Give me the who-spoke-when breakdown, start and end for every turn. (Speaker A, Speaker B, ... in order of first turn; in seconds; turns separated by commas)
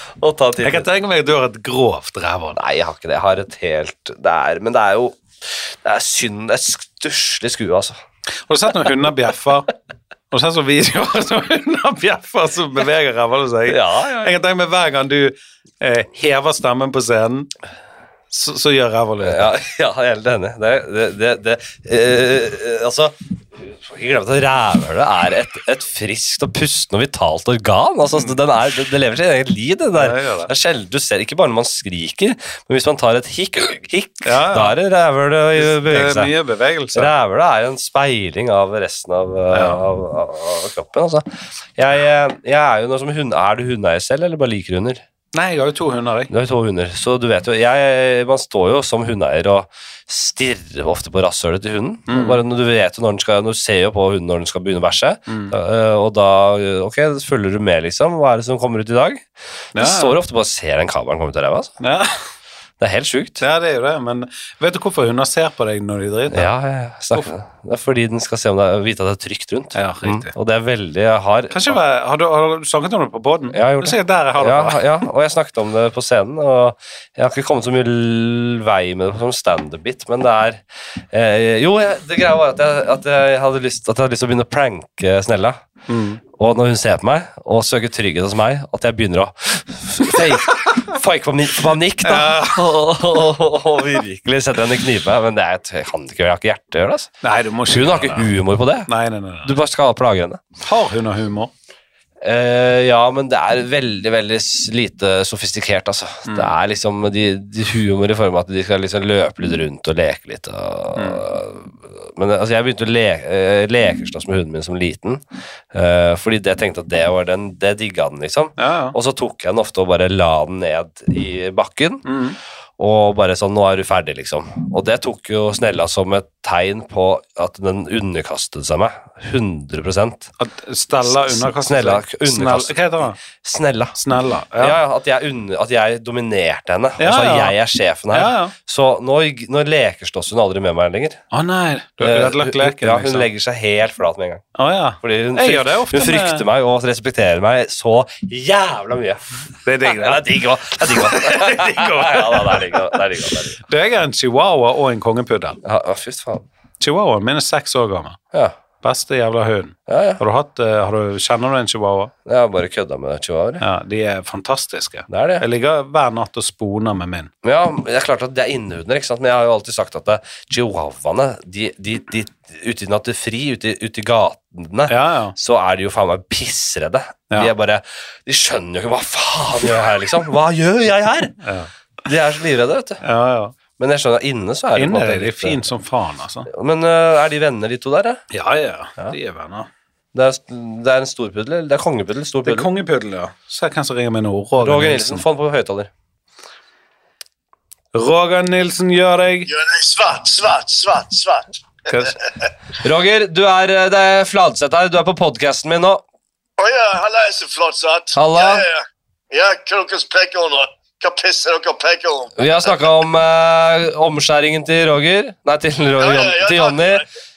Speaker A: 0.2-0.9, Speaker B: 0.6-2.6, Speaker A: 2.5-8.0, Speaker B: 8.5-9.7, Speaker B: 10.3-17.5, Speaker A: 13.7-14.4, Speaker B: 18.3-19.5, Speaker A: 19.2-36.3, Speaker B: 30.0-30.5, Speaker B: 34.2-34.8, Speaker B: 35.5-37.1, Speaker A: 36.9-45.0, Speaker B: 39.5-39.8, Speaker B: 45.3-46.3, Speaker A: 46.3-61.8, Speaker B: 52.1-52.4, Speaker B: 55.3-55.5, Speaker B: 59.8-60.2, Speaker B: 61.8-62.2, Speaker A: 62.8-63.4, Speaker B: 63.4-66.5, Speaker A: 66.3-71.8, Speaker B: 69.8-70.3, Speaker B: 71.5-74.9, Speaker A: 73.5-85.6, Speaker B: 85.9-86.2, Speaker A: 86.3-98.9, Speaker B: 90.3-90.8, Speaker B: 92.0-92.7, Speaker B: 97.2-98.3, Speaker B: 98.9-99.5, Speaker A: 99.4-100.4, Speaker B: 100.6-101.5, Speaker A: 102.2-122.1, Speaker B: 106.3-106.5, Speaker B: 111.0-111.2, Speaker B: 118.6-119.0, Speaker B: 122.0-122.4, Speaker A: 122.8-130.3, Speaker B: 130.4-133.2, Speaker A: 131.1-134.0, Speaker B: 134.0-134.8, Speaker A: 134.6-141.2, Speaker B: 137.0-137.6, Speaker B: 138.1-138.5, Speaker B: 141.3-143.3, Speaker A: 142.0-144.4, Speaker B: 144.6-146.4, Speaker A: 145.0-149.2, Speaker B: 149.7-150.3, Speaker A: 149.8-153.6, Speaker B: 150.8-152.9, Speaker B: 153.6-155.6, Speaker A: 155.6-156.5, Speaker B: 156.8-158.2, Speaker B: 158.8-162.1, Speaker A: 159.9-160.2, Speaker A: 162.2-163.6, Speaker B: 163.6-167.3, Speaker A: 165.1-165.4, Speaker A: 167.4-181.4, Speaker B: 174.9-175.3, Speaker B: 181.4-181.7, Speaker A: 182.1-183.0, Speaker B: 183.0-183.6, Speaker A: 183.8-185.7, Speaker B: 184.8-186.5, Speaker A: 186.5-188.2, Speaker B: 188.3-189.7, Speaker A: 190.1-192.7, Speaker B: 192.4-195.3, Speaker A: 194.6-195.9, Speaker B: 197.9-199.5, Speaker C: 199.5-202.1, Speaker B: 201.9-202.2, Speaker A: 202.8-206.0, Speaker C: 206.6-212.5, Speaker A: 208.1-208.7, Speaker A: 212.4-217.1, Speaker C: 216.0-217.1